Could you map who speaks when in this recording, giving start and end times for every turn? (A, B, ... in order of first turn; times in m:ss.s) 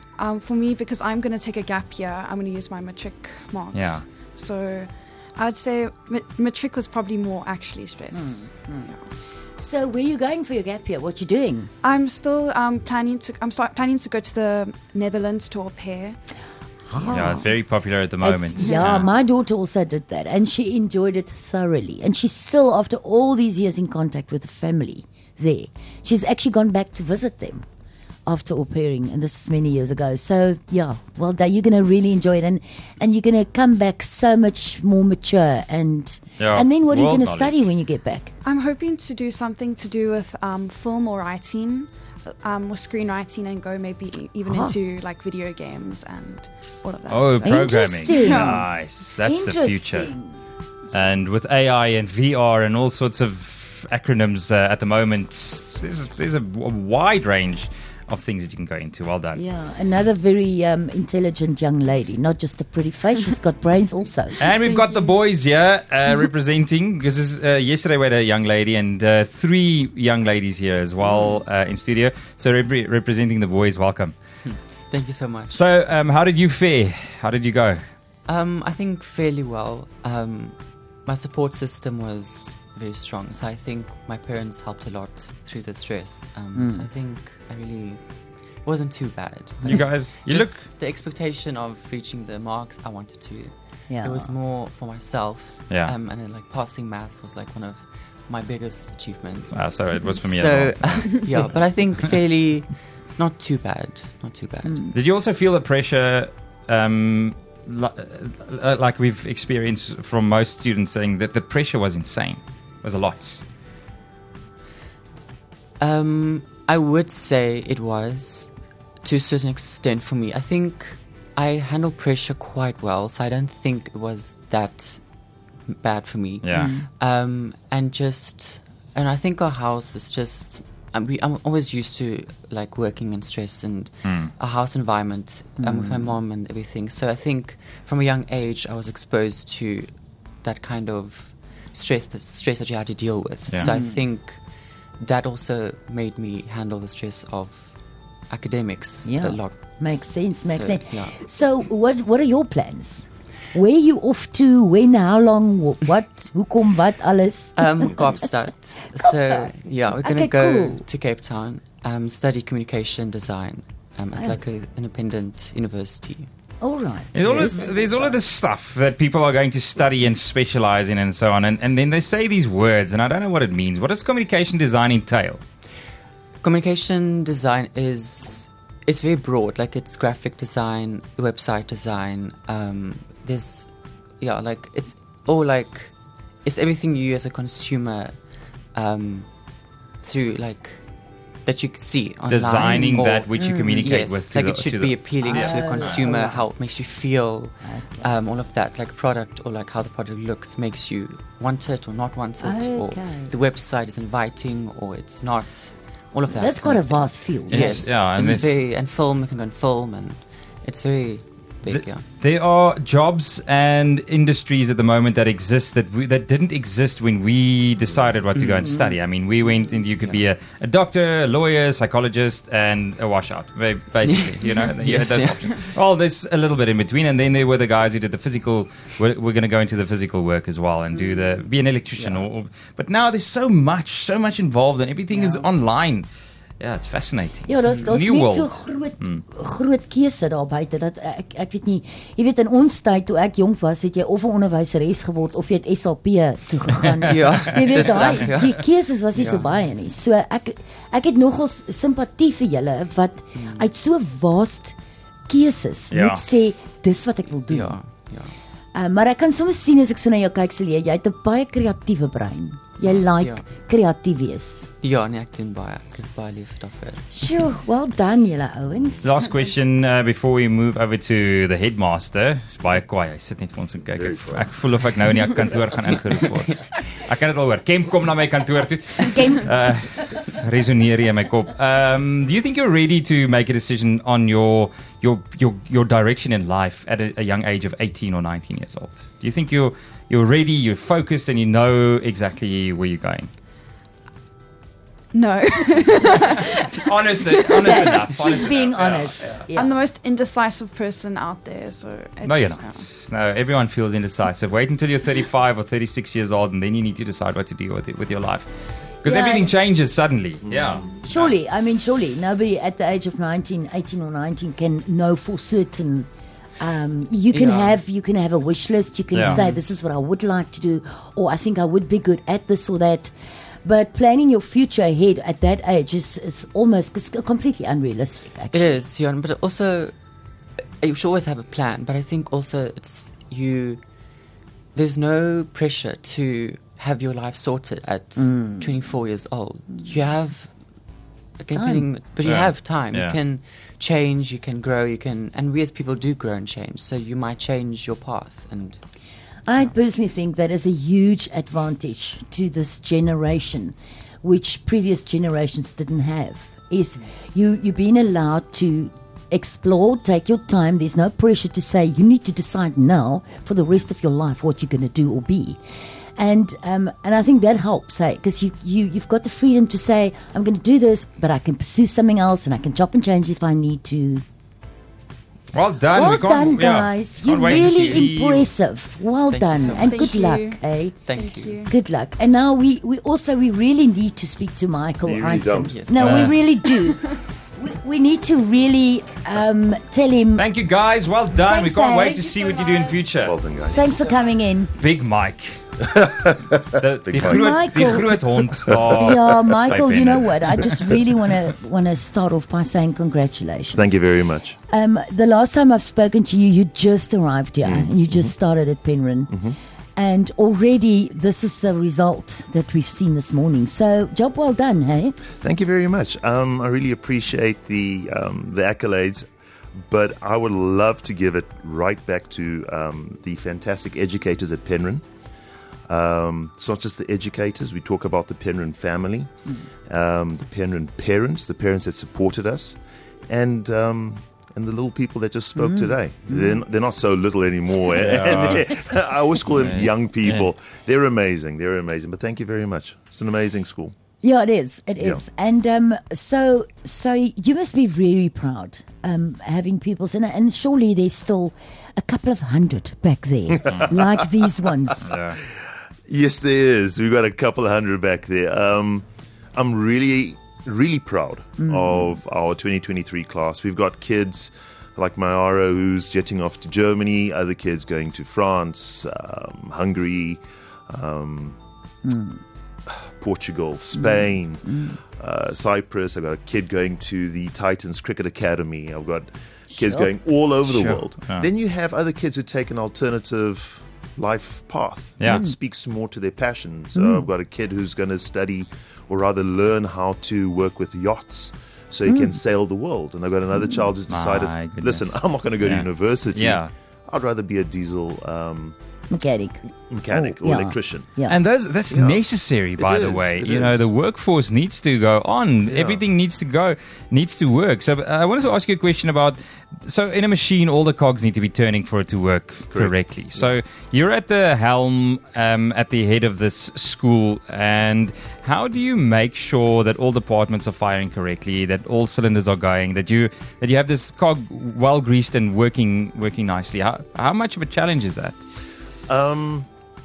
0:00.2-0:09.0 A
0:03.7-0:04.0 B
0:08.1-0:08.9 C
0:09.6-0:11.7 C
0:11.8-0:16.2 A
0:16.9-0:17.5 C
0:17.1-0:19.1 B
0:18.2-0:27.6 C
0:28.3-0:38.3 C
0:36.4-0:37.6 B
0:38.4-0:48.7 A
0:44.4-0:44.8 C
0:47.1-0:50.1 B
0:47.4-0:50.4 C
0:50.9-0:59.4 B
0:59.4-1:04.5 C
1:04.4-1:14.2 B
1:14.4-1:15.6 D
1:15.5-1:17.8 B
1:18.3-1:28.0 D
1:26.5-1:26.9 C
1:28.6-1:33.5 D
1:29.6-1:30.7 B
1:33.9-1:34.4 C
1:34.0-1:39.6 D
1:35.7-1:36.0 B
1:39.5-1:41.0 B
1:40.1-1:44.8 D
1:44.8-1:53.4 B
1:55.8-2:05.0 D
2:05.7-2:19.9 D
2:06.4-2:06.8 B
2:06.5-2:06.9 C
2:14.0-2:14.3 B
2:15.6-2:16.2 C
2:20.4-2:24.4 D
2:23.7-2:24.0 C
2:25.0-2:27.7 D
2:28.3-2:29.5 D
2:29.0-2:38.3 C
2:30.5-2:31.2 D
2:37.6-2:46.3 D
2:39.0-2:40.9 C
2:44.1-2:44.5 C
2:46.6-2:47.8 C
2:47.1-2:55.4 B
2:47.2-2:48.3 D
2:56.4-3:03.7 D
3:04.2-3:05.9 D
3:06.4-3:08.2 D
3:08.7-3:09.3 D
3:10.0-3:10.8 D
3:11.4-3:32.0 D
3:12.3-3:16.1 B
3:12.7-3:14.0 C
3:15.2-3:16.5 C
3:17.6-3:18.1 C
3:22.4-3:23.4 C
3:26.3-3:28.0 C
3:27.5-3:28.6 B
3:31.6-3:56.1 B
3:38.4-3:38.6 D
3:40.0-3:40.2 D
3:44.8-3:45.4 D
3:56.6-3:59.2 B
3:57.5-4:14.8 C
4:07.1-4:09.6 D
4:13.4-4:13.7 D
4:15.3-4:17.8 C
4:15.9-4:16.2 B
4:17.5-4:18.3 D
4:18.7-4:24.7 C
4:22.8-4:23.4 D
4:24.8-4:27.0 D
4:27.1-4:29.1 C
4:29.0-4:53.3 B
4:34.0-4:34.5 E
4:39.0-4:39.5 C
4:55.1-4:58.1 A
4:56.9-4:59.5 B
4:57.6-4:59.8 C
4:59.5-5:02.9 A
5:02.2-5:08.5 B
5:09.0-5:11.3 B
5:09.0-5:09.5 C
5:10.4-5:10.8 E
5:11.0-5:16.1 C
5:16.6-5:23.1 C
5:17.3-5:17.8 D
5:19.1-5:19.4 B
5:23.6-5:28.8 C
5:28.5-5:29.9 D
5:30.8-5:33.8 D
5:34.8-5:40.5 D
5:38.2-5:38.7 C
5:41.4-5:48.8 D
5:41.5-5:41.9 C
5:42.2-5:43.2 B
5:49.5-6:05.6 C
6:06.2-6:14.2 C
6:15.5-6:18.5 B
6:15.9-6:21.1 C
6:19.3-6:20.2 D
6:19.8-6:20.6 A
6:21.1-6:21.5 D
6:21.1-6:21.7 A
6:21.7-6:30.5 C
6:25.0-6:25.8 E
6:25.7-6:26.0 D
6:25.9-6:26.4 B
6:30.4-6:33.4 B
6:31.4-6:32.5 C
6:33.1-6:34.1 E
6:33.7-6:34.8 C
6:34.8-6:35.6 B
6:35.8-6:37.9 E
6:36.8-6:40.8 B
6:37.3-6:38.3 C
6:38.5-6:39.6 E
6:38.9-6:44.0 C
6:43.7-6:44.6 E
6:44.6-6:49.4 C
6:47.6-6:48.3 E
6:49.3-6:49.6 E
6:50.0-6:55.2 C
6:55.4-6:59.3 E
6:59.8-7:05.0 E
7:05.9-7:09.3 E
7:09.9-7:24.0 E
7:15.6-7:16.6 C
7:18.0-7:18.7 B
7:19.6-7:20.5 B
7:24.2-7:35.0 C
7:33.7-7:34.1 E
7:35.0-7:35.4 B
7:36.1-7:51.6 E
7:41.6-7:42.2 C
7:52.0-7:52.4 C
7:52.9-8:18.8 E
7:53.9-7:55.0 C
7:59.7-8:00.1 C
8:00.6-8:01.5 B
8:05.2-8:05.5 B
8:05.3-8:05.6 C
8:07.0-8:07.3 C
8:12.0-8:12.4 C
8:13.5-8:13.9 C
8:14.1-8:16.7 B
8:19.1-8:21.4 C
8:19.9-8:21.1 E
8:21.3-8:48.4 B
8:21.9-8:22.2 E
8:22.8-8:23.9 E
8:25.7-8:26.0 E
8:32.7-8:33.4 E
8:49.1-8:49.7 E